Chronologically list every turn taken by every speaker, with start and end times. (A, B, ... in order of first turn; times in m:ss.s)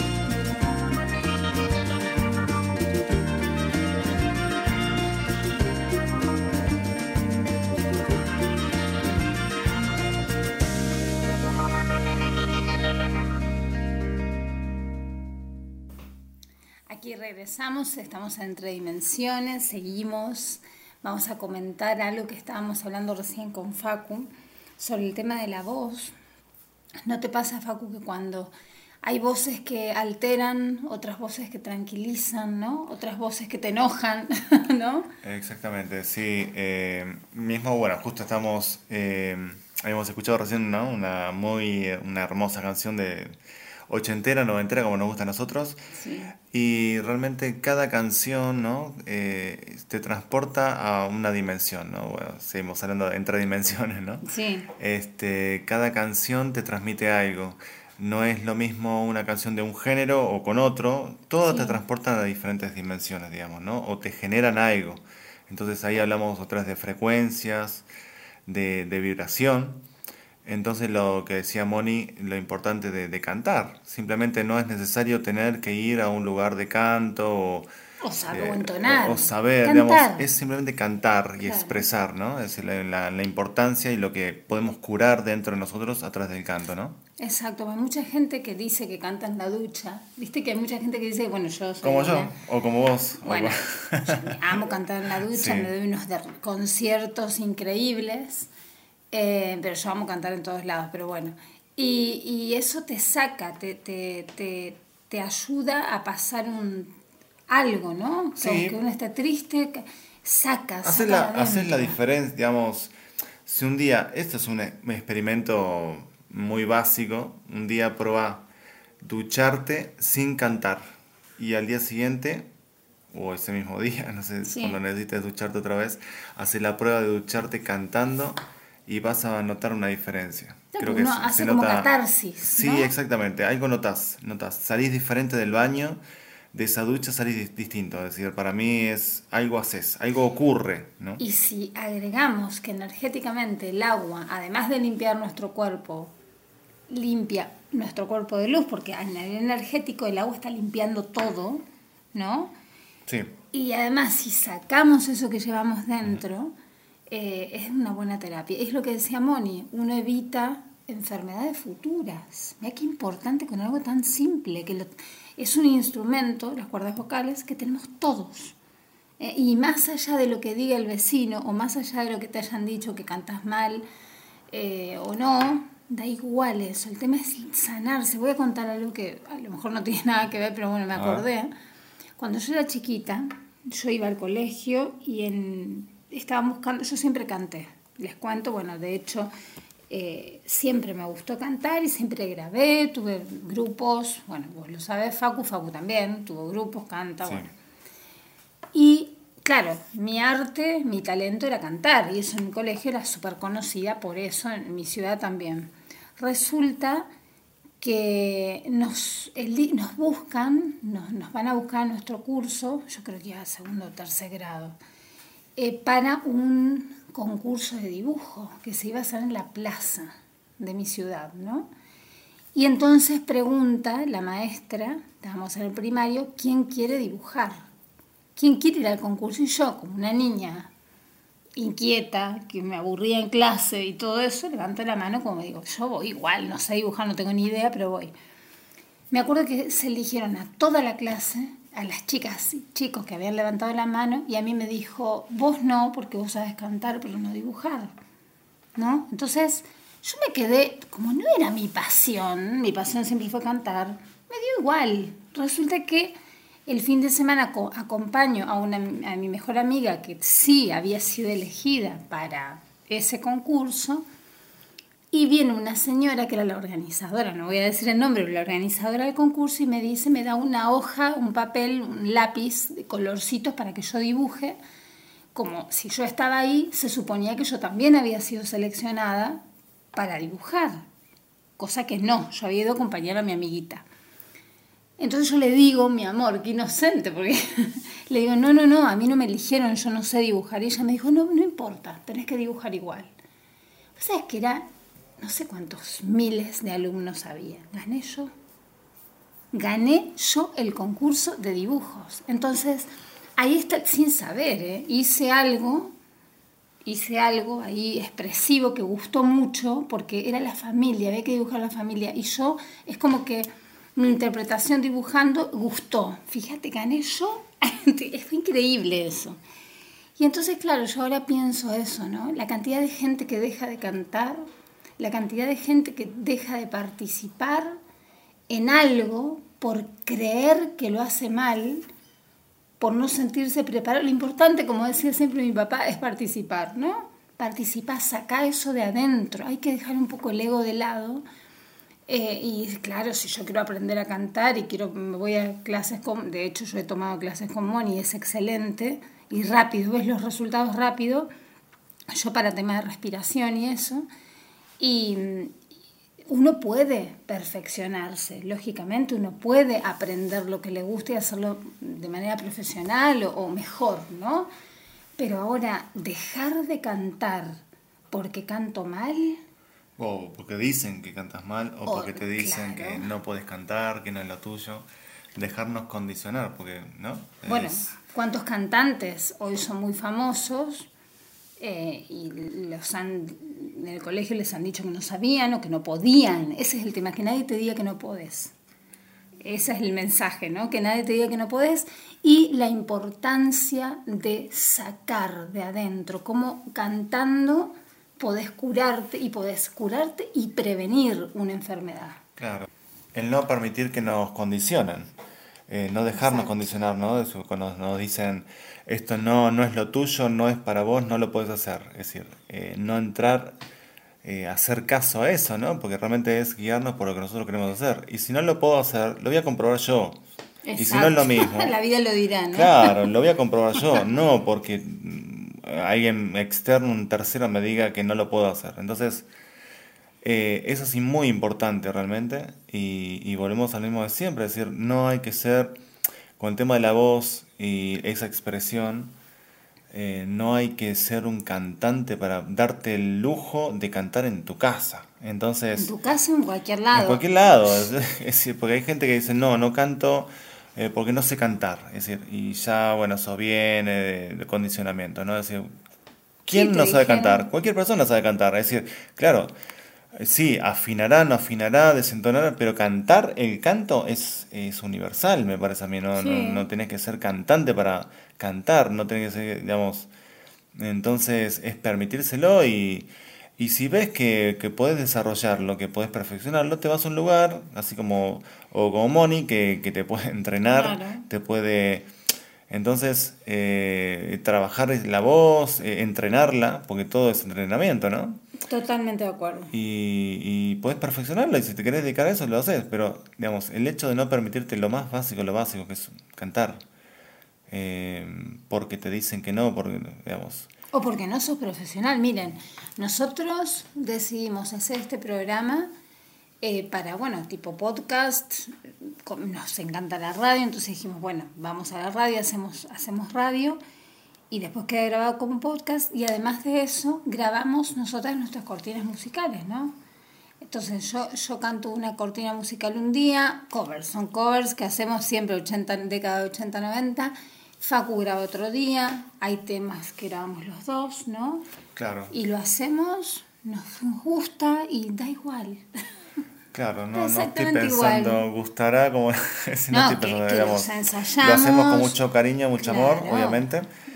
0:16.9-0:26.1 A
0:27.0-0:35.1 A
0:35.2-1:07.9 B
0:45.9-0:46.3 A
0:54.2-0:54.7 A
1:01.5-1:01.8 A
1:08.4-1:09.8 B
1:10.4-1:17.7 B
1:18.0-1:20.3 A
1:18.3-1:27.0 B
1:21.4-1:21.8 A
1:27.2-1:32.3 A
1:31.8-1:34.6 B
1:33.2-1:38.5 A
1:35.2-1:35.7 B
1:39.1-1:47.0 A
1:47.5-1:52.0 A
1:48.4-1:48.8 B
1:50.8-1:52.9 B
1:53.4-1:58.5 B
1:59.0-2:02.5 B
2:03.1-2:11.9 B
2:04.4-2:04.8 A
2:10.7-2:12.9 A
2:12.4-2:16.0 B
2:16.5-2:21.2 B
2:21.2-2:26.1 A
2:26.9-2:31.6 A
2:32.1-2:32.5 A
2:33.1-2:33.3 B
2:33.5-2:36.5 A
2:37.1-2:48.5 A
2:49.2-2:53.8 A
2:54.5-3:01.5 A
3:00.9-3:01.2 B
3:02.2-3:09.3 A
3:09.9-3:17.5 A
3:17.2-3:17.5 B
3:18.7-3:27.1 A
3:27.8-3:34.8 A
3:35.6-3:41.7 A
3:42.5-3:47.7 A
3:48.4-3:50.7 A
3:51.6-3:58.1 A
3:59.1-4:08.0 A
4:08.8-4:24.0 A
4:25.1-4:34.6 A
4:35.3-4:39.4 A
4:39.9-4:40.9 A
4:41.6-4:43.8 A
4:45.0-4:53.1 A
4:54.0-4:54.7 A
4:55.2-4:58.3 A
4:59.5-5:06.0 A
5:06.8-5:19.4 A
5:20.2-5:24.5 A
5:25.0-5:27.8 A
5:28.5-5:31.9 A
5:32.8-5:41.2 A
5:42.1-5:51.3 A
5:52.1-5:54.1 A
5:54.8-5:55.6 A
5:56.3-6:04.5 A
6:05.2-6:09.4 A
6:10.0-6:17.9 B
6:11.8-6:13.1 A
6:17.4-6:20.9 A
6:21.6-6:28.5 A
6:29.4-6:42.2 A
6:42.4-6:45.1 B
6:45.7-6:53.6 B
6:46.2-6:46.7 A
6:54.2-7:00.2 B
7:00.6-7:03.1 A
7:00.8-7:01.7 B
7:02.5-7:09.3 B
7:10.2-7:15.8 B
7:16.4-7:19.1 B
7:19.9-7:25.9 B
7:25.8-7:27.6 A
7:26.9-7:35.7 B
7:36.4-7:39.5 B
7:36.5-7:37.5 A
7:40.1-7:50.1 B
7:46.1-7:46.6 A
7:50.7-8:02.1 B
8:00.7-8:01.2 A
8:02.7-8:08.4 B
8:08.6-8:09.7 A
8:09.7-8:16.8 B
8:17.7-8:20.7 B
8:20.9-8:25.9 A
8:26.6-8:33.8 A
8:34.5-8:40.0 A
8:40.6-8:51.7 A
8:52.0-8:52.3 B
8:52.3-8:55.9 A
8:56.7-9:03.9 B
8:57.1-8:58.5 A
8:59.9-9:02.2 A
9:02.8-9:03.6 A